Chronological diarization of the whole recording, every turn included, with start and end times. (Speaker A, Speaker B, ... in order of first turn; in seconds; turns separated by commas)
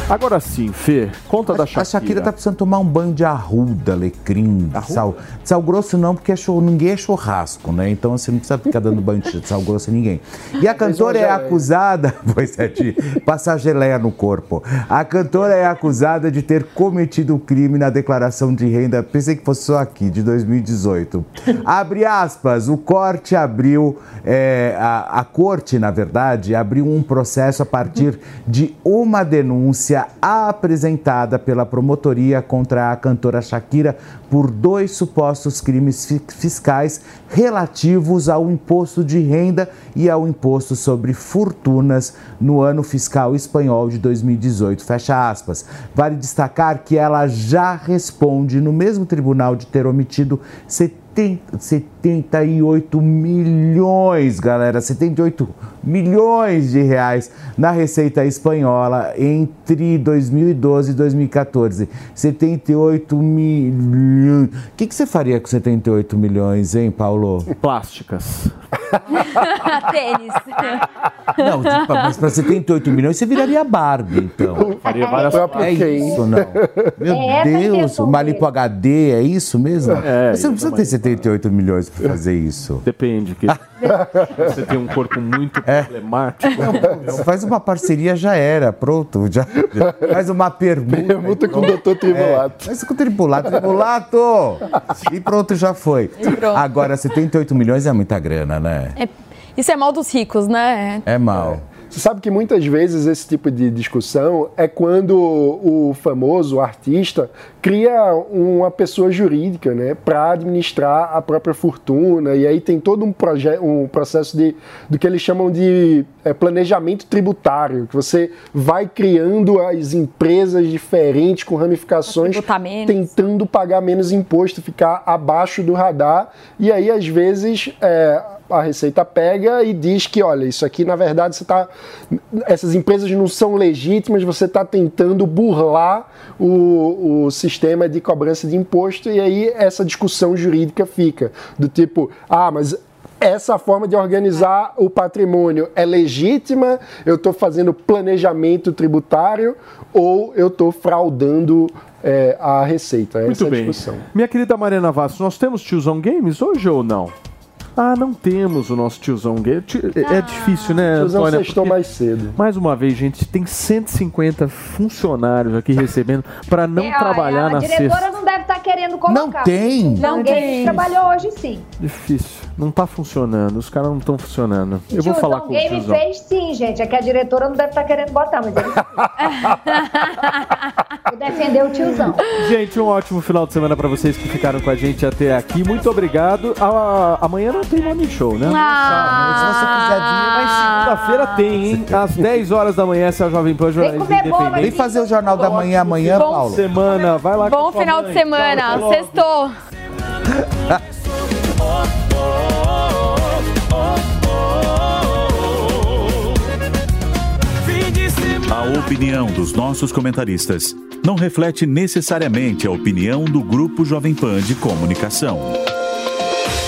Speaker A: 0.1-2.3, Speaker B: 1.5-67.5, Speaker A: 4.7-5.0, Speaker C: 10.7-11.6, Speaker A: 67.6-68.5, Speaker D: 69.2-70.8, Speaker B: 71.4-74.7, Speaker D: 71.4-72.0, Speaker C: 74.4-76.9, Speaker E: 74.8-76.2, Speaker A: 74.8-76.0, Speaker B: 75.6-82.8, Speaker E: 77.1-78.5, Speaker A: 80.0-81.2, Speaker A: 82.8-86.8, Speaker B: 85.6-85.9, Speaker B: 86.5-98.9, Speaker C: 90.9-92.7, Speaker D: 96.2-96.6, Speaker D: 99.0-101.0, Speaker B: 101.0-101.6, Speaker C: 101.9-154.0, Speaker D: 122.0-123.1, Speaker A: 153.2-157.1, Speaker A: 157.8-161.8, Speaker D: 160.0-160.8, Speaker C: 160.9-162.3, Speaker A: 162.3-168.1, Speaker E: 166.8-171.6, Speaker B: 169.1-170.6, Speaker D: 170.0-170.9, Speaker A: 171.8-176.0, Speaker E: 174.9-178.8, Speaker D: 179.4-180.6, Speaker E: 181.1-182.2, Speaker A: 182.2-189.5, Speaker D: 188.5-191.3, Speaker B: 188.8-190.7, Speaker A: 190.3-194.8, Speaker B: 191.7-192.2, Speaker E: 193.8-195.7, Speaker B: 194.6-196.6, Speaker A: 195.5-199.2, Speaker D: 196.2-199.5, Speaker F: 208.3-215.6